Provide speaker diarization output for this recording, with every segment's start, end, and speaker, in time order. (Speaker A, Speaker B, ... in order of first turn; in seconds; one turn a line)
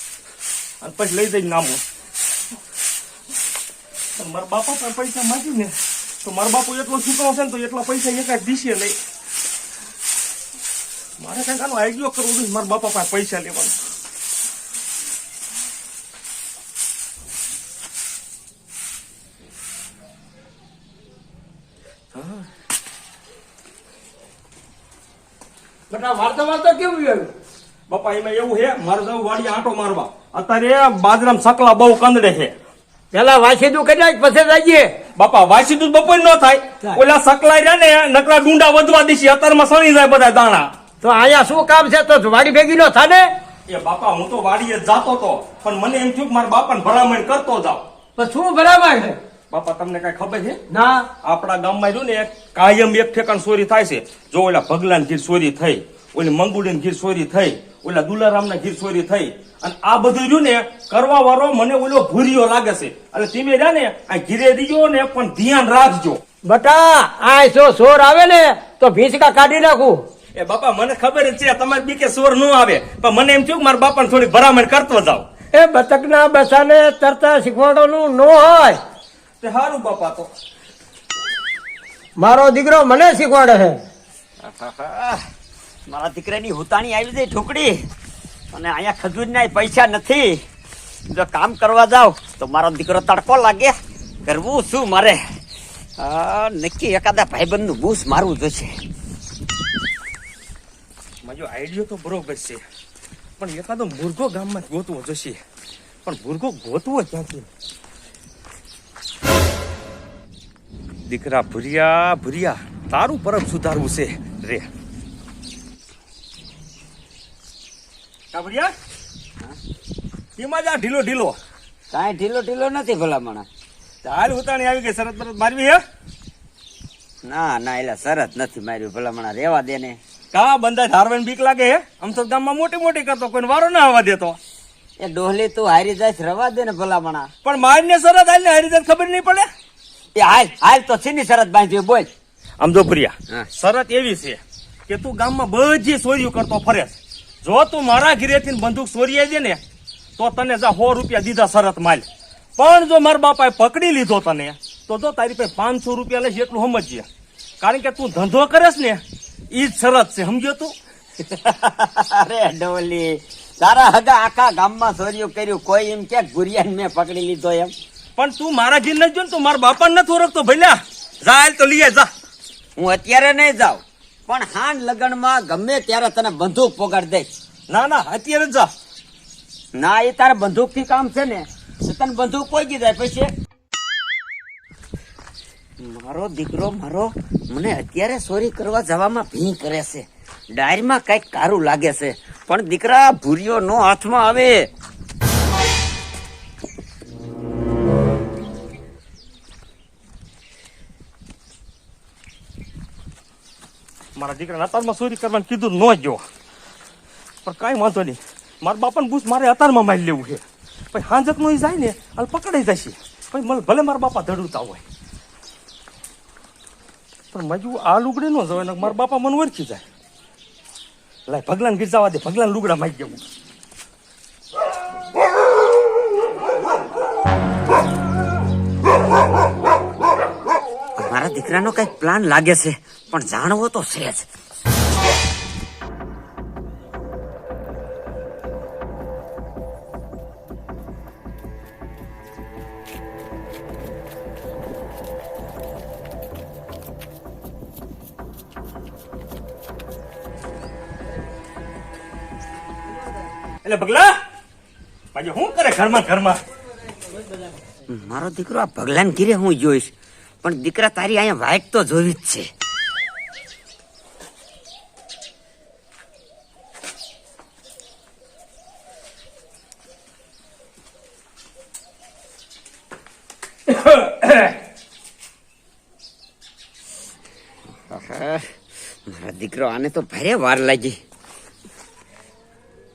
Speaker A: 0.8-1.8
Speaker A: 4.2-9.0
Speaker A: 11.2-13.7
Speaker A: 22.1-22.5
Speaker B: 25.9-27.3
Speaker A: 27.9-32.5
Speaker B: 33.1-34.9
Speaker A: 35.1-40.7
Speaker B: 41.0-43.3
Speaker A: 43.7-47.8
Speaker B: 48.1-49.2
Speaker A: 49.5-50.6
Speaker B: 50.7-51.1
Speaker A: 51.2-66.2
Speaker B: 66.5-70.0
Speaker A: 70.3-75.2
Speaker B: 75.5-78.8
Speaker A: 79.4-80.3
Speaker B: 82.2-83.8
Speaker C: 84.4-85.2
Speaker C: 85.9-87.8
Speaker C: 88.5-90.4
Speaker C: 91.1-95.2
Speaker C: 96.0-98.8
Speaker A: 101.2-102.6
Speaker A: 103.4-105.4
Speaker A: 106.0-107.5
Speaker A: 111.1-114.7
Speaker A: 118.3-118.7
Speaker A: 120.4-121.4
Speaker C: 121.9-123.5
Speaker A: 124.0-125.8
Speaker C: 127.2-130.0
Speaker A: 130.3-134.4
Speaker C: 135.0-137.3
Speaker A: 137.4-139.5
Speaker C: 140.2-142.1
Speaker A: 142.6-149.6
Speaker A: 150.2-152.1
Speaker A: 152.6-157.1
Speaker A: 157.6-159.0
Speaker A: 159.5-160.7
Speaker C: 161.2-167.7
Speaker A: 168.2-172.1
Speaker C: 172.8-177.3
Speaker A: 177.7-178.7
Speaker C: 179.7-183.3
Speaker C: 185.8-194.7
Speaker A: 204.2-206.2
Speaker A: 207.4-214.8
Speaker A: 217.3-219.8
Speaker A: 221.3-223.2
Speaker C: 231.0-234.3
Speaker A: 253.6-254.2
Speaker A: 255.1-256.4
Speaker C: 257.9-262.5
Speaker A: 273.7-274.5
Speaker C: 277.9-281.0